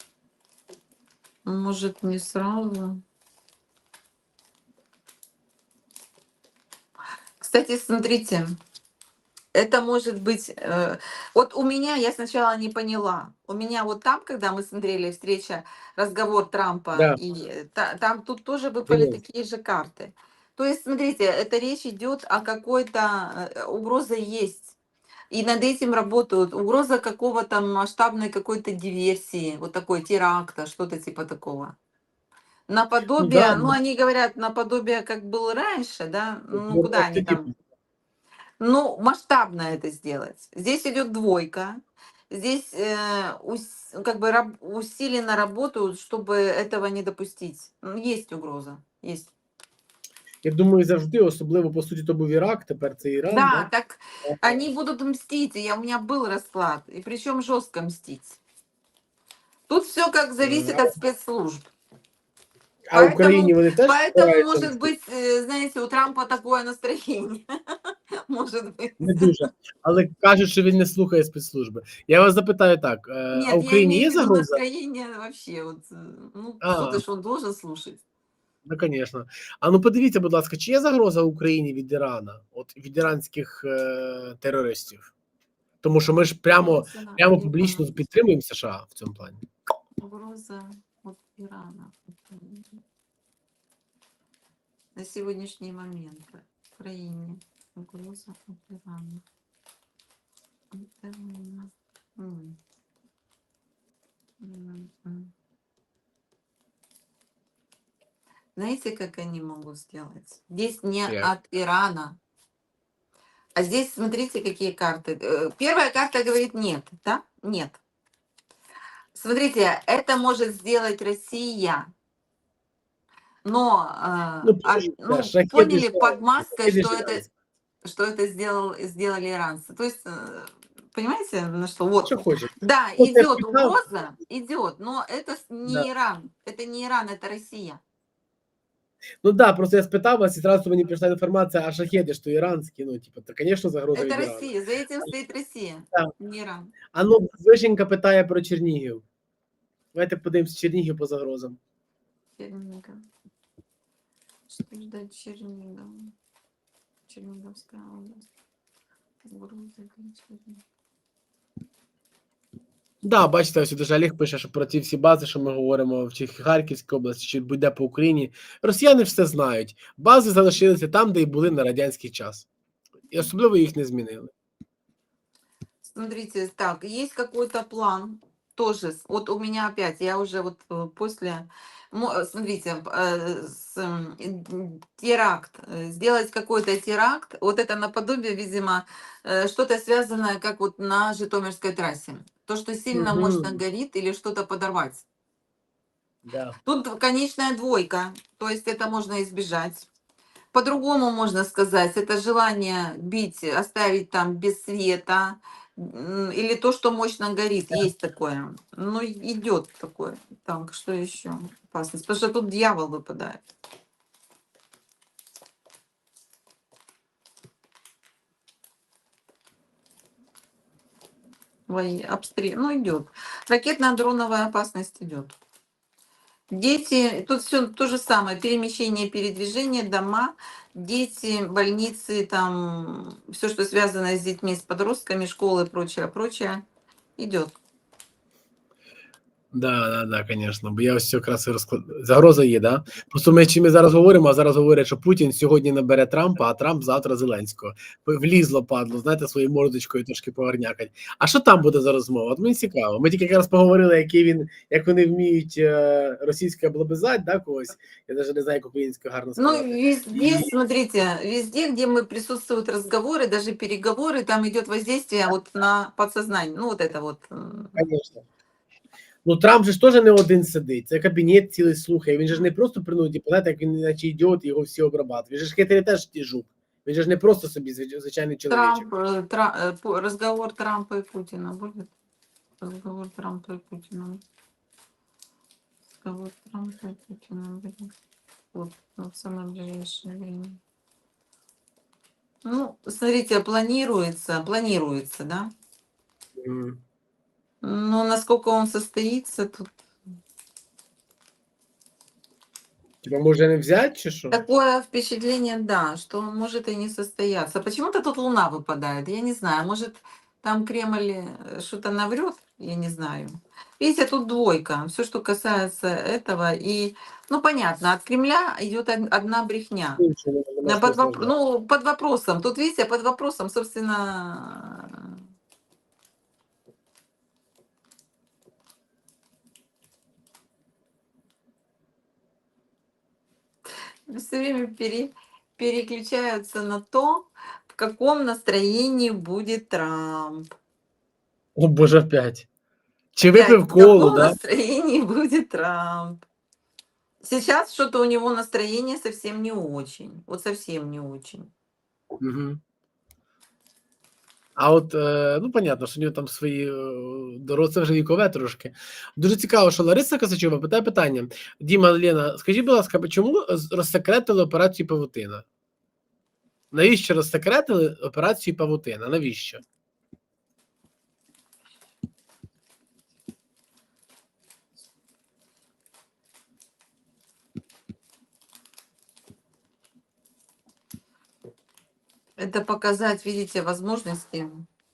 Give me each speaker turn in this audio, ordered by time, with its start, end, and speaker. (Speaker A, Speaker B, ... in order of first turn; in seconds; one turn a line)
Speaker A: 1.4-3.0
Speaker A: 7.4-8.6
Speaker A: 9.5-24.8
Speaker B: 18.9-19.2
Speaker A: 25.3-31.8
Speaker A: 32.7-37.5
Speaker B: 33.2-33.8
Speaker B: 36.5-37.5
Speaker A: 38.6-49.3
Speaker B: 50.4-53.7
Speaker A: 53.3-58.4
Speaker B: 54.2-54.6
Speaker A: 59.7-61.7
Speaker B: 60.4-60.9
Speaker B: 62.9-64.9
Speaker A: 62.9-67.8
Speaker A: 68.3-69.3
Speaker B: 69.0-74.6
Speaker A: 73.3-78.0
Speaker B: 76.6-77.0
Speaker B: 78.7-85.1
Speaker B: 85.8-89.4
Speaker A: 86.6-87.9
Speaker A: 90.0-92.8
Speaker A: 95.0-99.2
Speaker A: 100.7-102.6
Speaker A: 104.4-105.3
Speaker A: 108.5-112.2
Speaker B: 111.1-111.3
Speaker A: 113.5-117.8
Speaker A: 119.1-121.9
Speaker A: 123.4-127.2
Speaker B: 124.4-127.2
Speaker A: 127.8-137.8
Speaker B: 132.0-133.8
Speaker B: 139.2-144.5
Speaker A: 143.9-146.8
Speaker B: 146.9-149.0
Speaker B: 149.9-151.6
Speaker A: 152.4-153.1
Speaker A: 154.5-156.1
Speaker A: 157.1-158.3
Speaker A: 159.2-160.6
Speaker B: 163.0-172.5
Speaker B: 173.1-174.3
Speaker A: 175.8-195.0
Speaker B: 192.9-193.6
Speaker B: 196.2-196.6
Speaker A: 196.6-199.9
Speaker A: 200.5-213.4
Speaker A: 221.7-225.3
Speaker A: 226.5-236.6
Speaker A: 237.2-237.6
Speaker B: 239.5-260.5
Speaker A: 259.4-267.8
Speaker B: 267.8-268.2
Speaker B: 269.2-278.9
Speaker A: 278.5-281.9
Speaker A: 282.6-284.2
Speaker A: 285.9-287.9
Speaker A: 288.5-290.6
Speaker A: 292.4-295.5
Speaker B: 296.4-296.8
Speaker A: 297.6-299.7
Speaker B: 303.0-304.4
Speaker A: 304.3-320.0
Speaker B: 320.0-321.3
Speaker A: 320.6-325.2
Speaker A: 334.1-340.5
Speaker B: 341.6-342.5
Speaker B: 343.1-344.4
Speaker A: 343.3-346.2
Speaker A: 347.2-351.5
Speaker B: 352.2-352.6
Speaker B: 354.6-365.4
Speaker B: 366.7-369.6
Speaker A: 382.4-384.7